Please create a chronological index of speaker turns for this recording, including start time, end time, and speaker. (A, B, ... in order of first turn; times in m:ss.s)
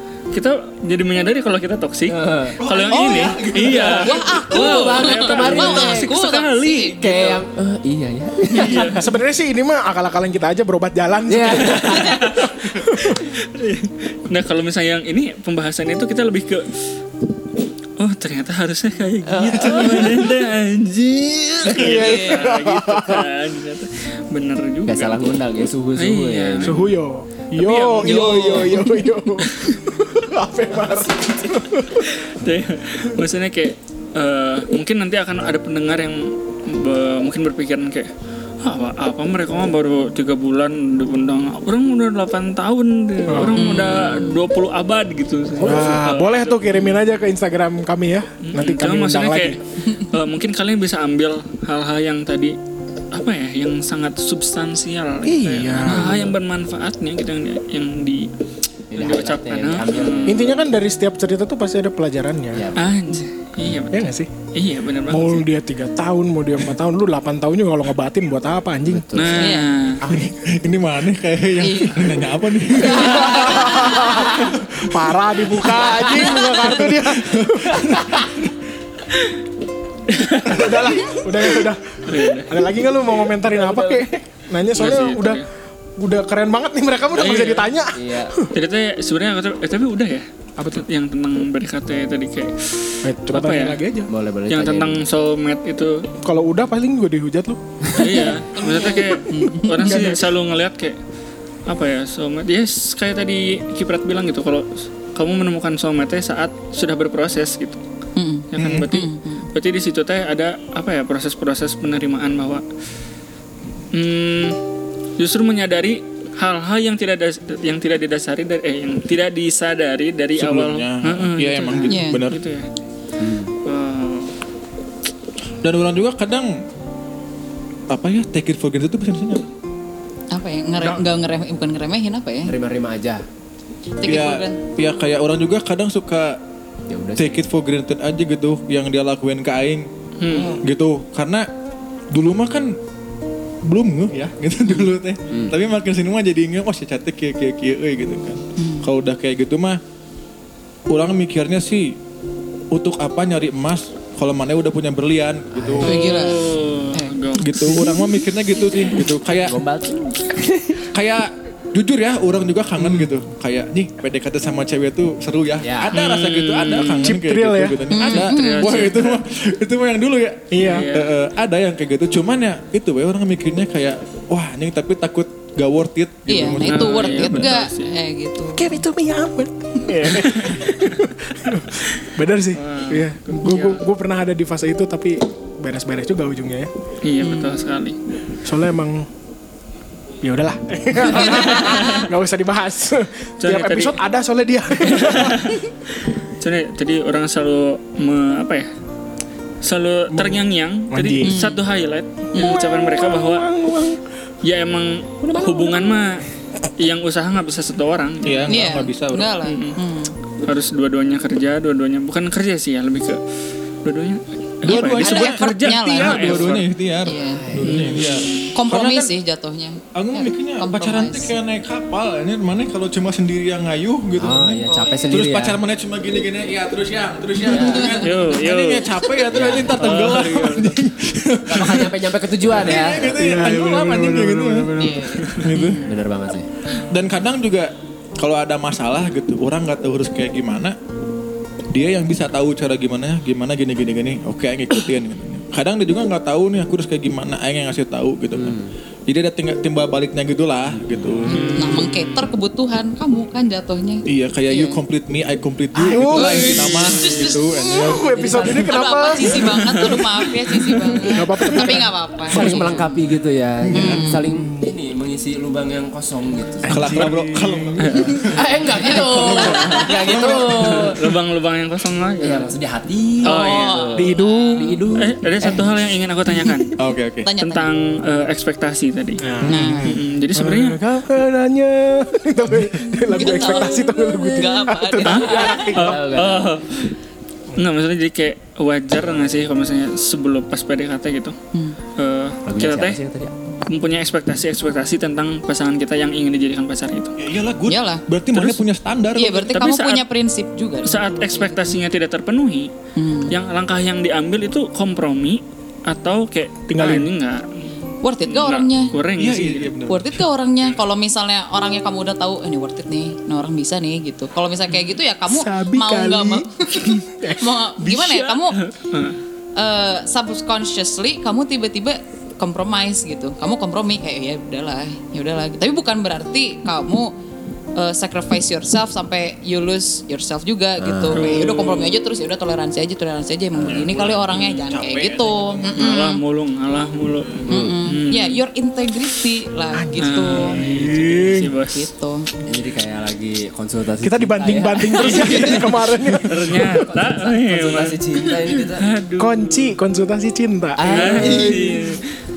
0:00.3-0:07.4 A
0:02.1-0:02.6 B
0:02.6-0:04.2 C
0:02.9-0:07.0 D
0:04.5-0:06.2 B
0:07.0-0:09.0 B
0:08.5-0:09.0 A
0:08.9-0:13.3 E
0:11.3-0:12.2 B
0:11.7-0:12.5 A
0:13.1-0:16.8 A
0:18.0-0:25.2 A
0:19.3-0:20.3 B
0:21.7-0:23.2 E
0:21.8-0:22.6 D
0:24.9-0:26.8 B
0:26.0-0:26.9 A
0:26.6-0:32.2 E
0:27.6-0:29.7 A
0:32.0-0:38.1 A
0:38.6-0:47.0 A
0:43.3-0:43.6 E
0:43.5-0:44.4 D
0:45.6-0:49.6 E
0:48.4-0:52.6 A
0:53.1-0:58.3 A
0:55.2-0:56.4 E
0:58.9-1:00.5 B
0:58.9-1:00.6 A
1:00.3-1:02.7 E
1:02.5-1:02.9 B
1:02.8-1:05.4 A
1:03.9-1:04.3 E
1:05.1-1:09.3 E
1:08.9-1:09.6 B
1:09.2-1:10.0 A
1:09.4-1:09.7 D
1:10.0-1:10.4 E
1:10.4-1:13.7 C
1:11.6-1:12.1 D
1:12.9-1:14.3 D
1:12.9-1:18.3 E
1:14.4-1:14.9 C
1:17.1-1:18.3 C
1:20.1-1:22.6 A
1:20.5-1:25.4 E
1:23.5-1:24.0 B
1:24.7-1:25.4 A
1:26.0-1:28.5 E
1:27.1-1:27.7 A
1:27.9-1:28.4 B
1:28.5-1:33.8 A
1:30.6-1:30.8 E
1:33.0-1:34.1 E
1:34.1-1:35.0 B
1:34.5-1:36.0 A
1:36.2-1:38.2 E
1:38.0-1:41.0 A
1:38.6-1:40.0 D
1:39.3-1:40.2 E
1:41.7-1:47.8 A
1:48.2-1:49.5 D
1:48.5-1:52.6 A
1:48.6-1:48.9 C
1:53.9-1:54.6 A
1:55.2-2:02.7 A
2:00.4-2:02.4 C
2:01.9-2:02.2 D
2:03.2-2:03.5 B
2:03.6-2:04.3 A
2:05.6-2:06.6 C
2:07.9-2:09.5 C
2:10.3-2:12.5 D
2:12.4-2:13.2 B
2:14.0-2:14.6 D
2:14.0-2:16.4 C
2:16.9-2:17.5 B
2:17.2-2:19.9 C
2:20.2-2:20.6 A
2:20.5-2:21.5 C
2:22.1-2:22.8 C
2:23.6-2:29.8 C
2:28.6-2:28.9 D
2:30.9-2:32.0 C
2:32.7-2:35.9 C
2:35.5-2:35.9 B
2:35.8-2:37.2 D
2:35.8-2:37.9 A
2:37.4-2:39.6 C
2:39.4-2:40.8 B
2:40.9-2:57.6 C
2:45.6-2:46.0 B
2:45.9-2:47.1 A
2:47.0-2:47.8 E
2:47.9-2:48.9 D
2:48.1-2:49.2 A
2:50.5-2:50.9 E
2:50.6-2:51.1 A
2:56.3-2:58.7 D
2:56.6-2:57.9 A
2:58.6-3:06.7 E
3:00.2-3:00.8 A
3:02.5-3:03.8 A
3:07.0-3:08.0 A
3:07.2-3:07.6 D
3:08.4-3:09.1 E
3:10.2-3:15.6 E
3:11.1-3:12.1 A
3:13.4-3:14.0 A
3:14.8-3:15.6 A
3:16.3-3:18.7 A
3:19.6-3:23.5 A
3:20.1-3:20.4 E
3:20.9-3:21.4 E
3:21.2-3:21.6 D
3:22.3-3:24.0 E
3:24.4-3:26.2 A
3:25.4-3:25.7 B
3:26.8-3:28.5 A
3:28.2-3:29.4 C
3:28.5-3:30.2 D
3:29.4-3:29.8 A
3:30.4-3:33.2 A
3:33.8-3:36.7 A
3:34.6-3:39.1 C
3:34.7-3:37.5 D
3:37.3-3:38.0 B
3:37.6-3:38.6 A
3:38.5-3:41.4 D
3:39.9-3:52.0 C
3:44.2-3:45.6 B
3:47.5-3:48.1 D
3:47.5-3:47.9 B
3:47.9-3:49.0 A
3:49.3-3:49.9 B
3:49.6-3:50.8 A
3:51.5-3:53.2 B
3:52.5-3:54.7 C
3:53.1-3:55.3 E
3:54.8-3:55.9 D
3:55.3-3:55.8 C
3:55.8-3:56.5 B
3:56.8-4:00.8 C
4:01.7-4:11.7 C
4:08.4-4:08.7 B
4:11.0-4:11.2 B
4:11.3-4:12.3 A
4:11.3-4:14.8 D
4:14.1-4:18.1 C
4:15.8-4:20.0 E
4:16.0-4:17.7 D
4:18.1-4:18.8 B
4:18.3-4:22.8 D
4:21.0-4:22.8 E
4:22.3-4:27.1 B
4:23.7-4:24.1 C
4:23.7-4:24.2 D
4:24.2-4:24.6 E
4:26.6-4:28.1 E
4:26.7-4:28.4 C
4:27.8-4:28.1 A
4:28.3-4:31.1 B
4:28.8-4:30.4 D
4:29.1-4:30.9 C
4:29.6-4:32.5 A
4:32.2-4:35.7 B
4:33.2-4:33.9 A
4:33.2-4:34.8 D
4:34.0-4:34.8 E
4:35.0-4:36.8 A
4:36.8-4:37.3 C
4:37.2-4:37.7 D
4:37.4-4:40.8 A
4:39.2-4:46.0 E
4:39.5-4:40.0 D
4:43.1-4:45.7 D
4:45.0-4:47.0 A
4:45.7-4:46.6 B
4:47.6-4:51.4 A
4:51.5-4:51.8 D
4:52.0-4:53.0 A
4:52.5-4:53.4 B
4:53.7-4:57.2 A
4:57.2-4:59.5 C
4:57.7-4:58.1 D
4:58.3-4:58.6 A
4:59.1-5:01.5 D
4:59.5-5:00.0 A
5:00.8-5:02.7 A
5:03.0-5:03.4 D
5:03.3-5:07.6 A
5:06.7-5:07.1 E
5:08.0-5:09.0 D
5:08.3-5:09.7 A
5:09.2-5:10.2 C
5:09.9-5:18.6 D
5:15.3-5:17.6 E
5:17.8-5:19.2 A
5:19.6-5:27.1 D
5:27.8-5:36.2 D
5:30.8-5:31.2 B
5:31.2-5:32.0 A
5:33.6-5:36.0 C
5:35.7-5:38.4 A
5:37.5-5:37.8 B
5:37.5-5:40.6 D
5:39.7-5:41.5 E
5:40.0-5:41.9 A
5:41.7-5:42.3 D
5:42.5-5:45.6 B
5:44.0-5:46.6 E
5:45.0-5:49.7 A
5:46.6-5:48.9 B
5:49.2-5:51.7 E
5:50.8-5:51.8 B
5:50.8-5:52.0 A